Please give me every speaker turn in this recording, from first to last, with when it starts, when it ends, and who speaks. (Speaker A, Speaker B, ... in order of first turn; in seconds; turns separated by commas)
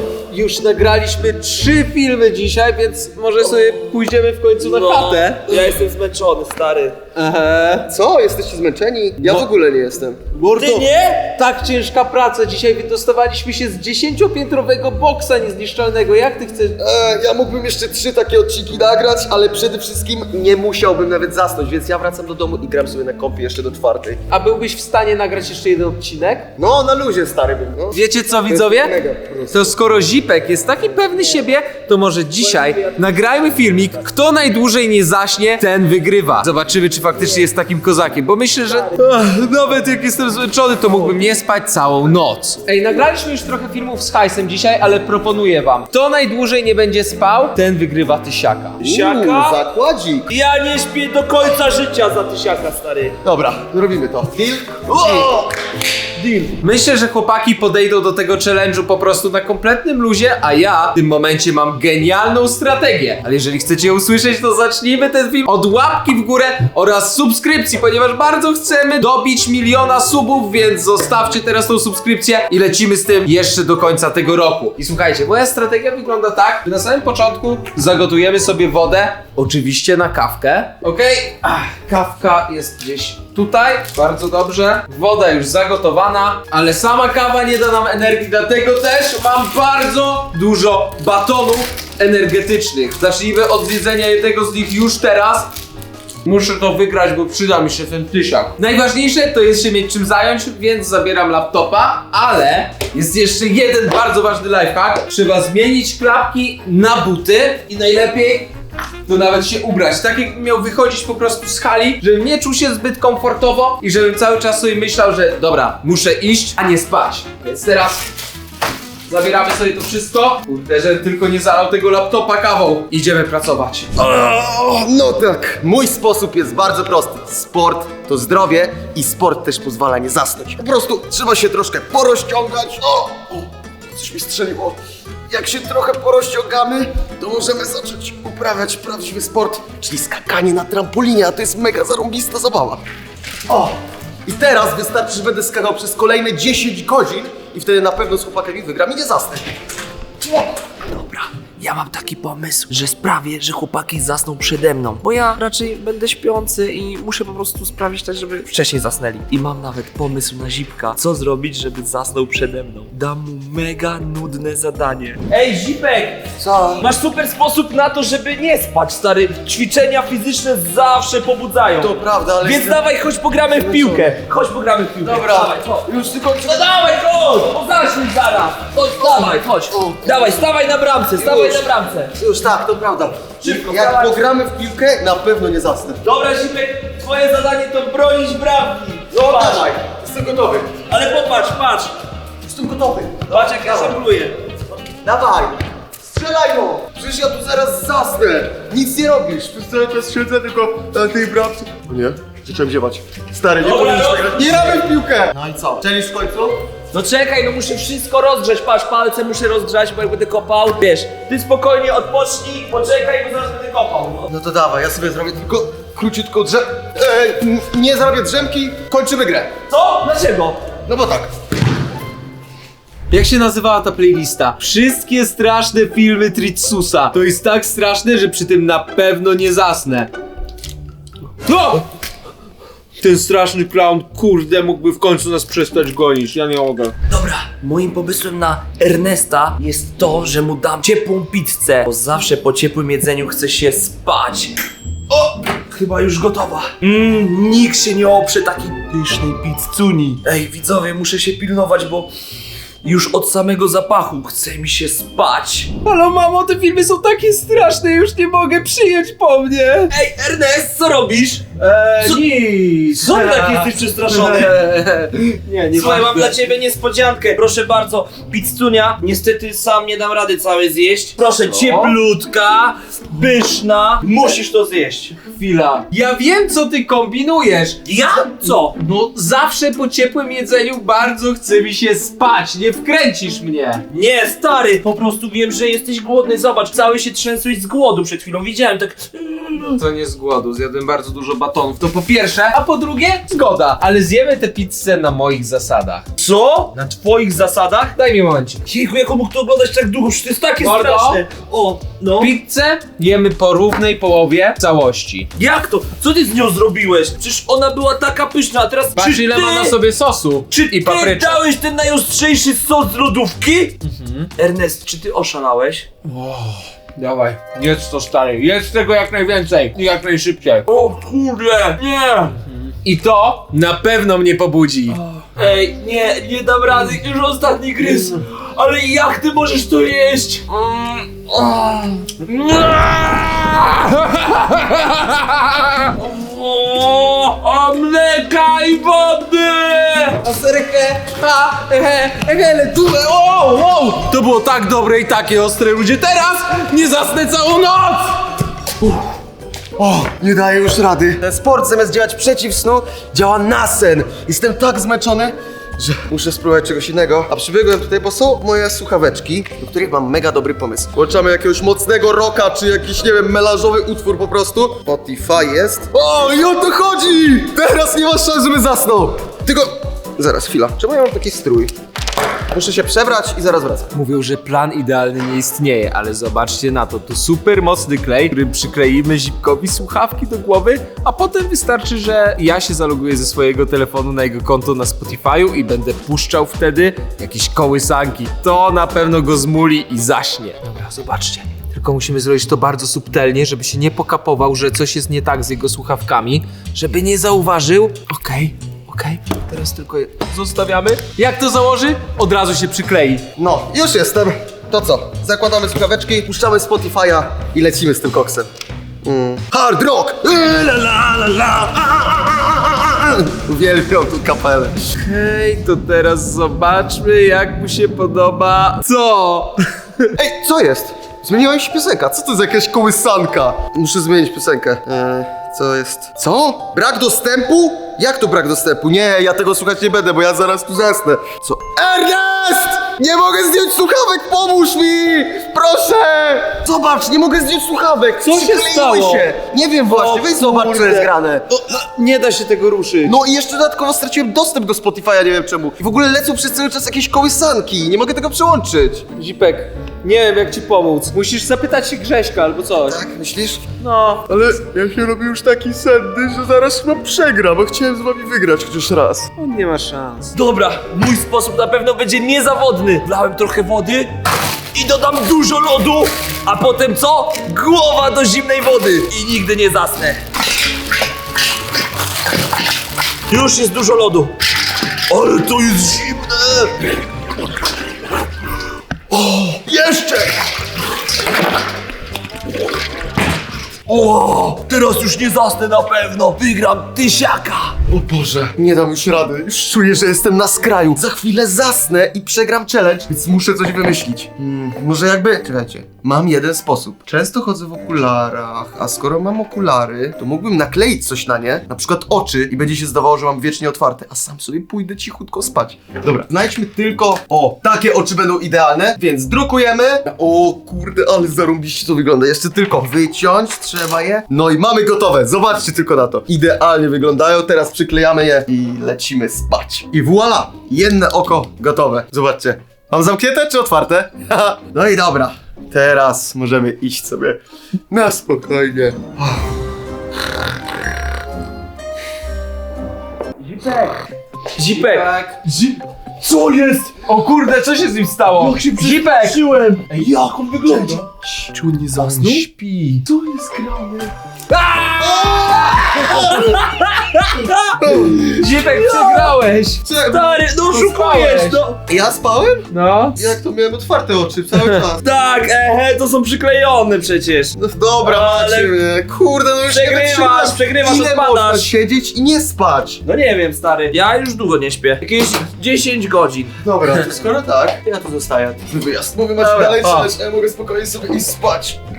Speaker A: 0.3-5.8, Speaker B: 4.6-7.0, Speaker A: 7.2-7.9, Speaker C: 7.9-10.2, Speaker A: 9.2-9.5, Speaker A: 10.3-16.8, Speaker B: 10.5-11.3, Speaker C: 16.8-24.2, Speaker A: 24.3-26.5, Speaker C: 26.6-29.7, Speaker A: 27.9-28.9, Speaker A: 29.5-48.8, Speaker B: 32.4-34.0, Speaker B: 38.7-39.0, Speaker B: 48.8-49.6, Speaker C: 48.8-50.3, Speaker B: 50.3-53.2, Speaker C: 53.2-55.5, Speaker A: 56.6-95.5, Speaker A: 96.2-108.5, Speaker A: 109.1-118.0, Speaker A: 119.1-123.9, Speaker C: 124.0-142.8, Speaker C: 143.5-149.5, Speaker B: 150.3-166.3, Speaker C: 166.4-166.9, Speaker B: 166.8-175.9, Speaker C: 171.8-172.9, Speaker C: 173.5-174.2, Speaker C: 175.0-176.7, Speaker B: 176.4-182.1, Speaker C: 179.8-180.2, Speaker C: 181.2-186.0, Speaker B: 183.4-184.2, Speaker B: 186.0-189.7, Speaker C: 189.1-190.7, Speaker B: 190.9-191.9, Speaker C: 192.5-194.0, Speaker B: 193.3-194.3, Speaker C: 195.0-206.6, Speaker B: 203.6-204.8, Speaker B: 206.9-214.3, Speaker C: 214.3-219.5, Speaker B: 219.7-220.6, Speaker C: 220.9-221.3, Speaker A: 223.1-230.1, Speaker A: 231.4-231.8, Speaker A: 233.0-236.9, Speaker B: 237.1-244.6, Speaker B: 245.1-252.1, Speaker B: 252.8-255.7, Speaker A: 255.8-259.9, Speaker B: 259.9-261.5, Speaker A: 261.6-266.4, Speaker B: 263.0-264.6, Speaker B: 265.7-275.2, Speaker A: 271.5-272.0, Speaker A: 275.2-277.8, Speaker B: 277.9-278.8, Speaker A: 278.4-283.8, Speaker B: 283.9-289.8, Speaker A: 289.8-296.1, Speaker B: 296.2-297.9, Speaker A: 297.9-298.6, Speaker B: 298.6-302.3, Speaker A: 300.6-301.2, Speaker A: 302.2-305.3, Speaker B: 305.4-309.8, Speaker A: 309.0-311.4, Speaker B: 310.5-313.8, Speaker A: 313.8-314.3, Speaker B: 314.4-315.9, Speaker A: 316.1-320.7, Speaker B: 320.7-322.4, Speaker A: 322.8-325.0, Speaker B: 325.0-333.7, Speaker A: 333.7-335.8, Speaker B: 335.9-340.2, Speaker A: 340.2-348.3, Speaker C: 349.8-371.7, Speaker C: 372.5-373.9, Speaker A: 373.9-403.2, Speaker C: 403.4-408.5, Speaker C: 409.0-414.9, Speaker A: 415.0-420.1, Speaker C: 420.1-441.4, Speaker A: 438.2-439.3, Speaker A: 439.9-443.2, Speaker C: 443.0-449.1, Speaker A: 449.1-453.0, Speaker C: 452.9-453.6, Speaker A: 453.8-454.3, Speaker C: 454.3-459.3, Speaker A: 459.4-460.4, Speaker B: 460.4-464.1, Speaker B: 464.7-470.2, Speaker B: 473.3-474.3, Speaker B: 475.1-476.8, Speaker C: 479.1-480.3, Speaker B: 483.9-487.8, Speaker C: 487.9-527.4, Speaker C: 527.9-529.5, Speaker B: 533.4-534.0, Speaker B: 534.6-536.9, Speaker A: 534.7-535.5, Speaker A: 537.0-540.1, Speaker B: 538.3-542.5, Speaker A: 540.7-541.0, Speaker C: 541.0-541.3, Speaker A: 541.7-543.0, Speaker B: 543.1-544.1, Speaker A: 544.5-546.2, Speaker C: 545.0-546.5, Speaker B: 545.6-549.4, Speaker C: 547.8-548.6, Speaker A: 548.3-549.8, Speaker C: 549.8-550.4, Speaker B: 550.1-551.8, Speaker A: 550.7-551.6, Speaker C: 551.9-555.0, Speaker A: 552.7-553.2, Speaker B: 555.0-558.8, Speaker C: 557.6-563.0, Speaker B: 559.7-561.7, Speaker B: 563.0-566.5, Speaker C: 566.6-571.8, Speaker A: 569.4-570.1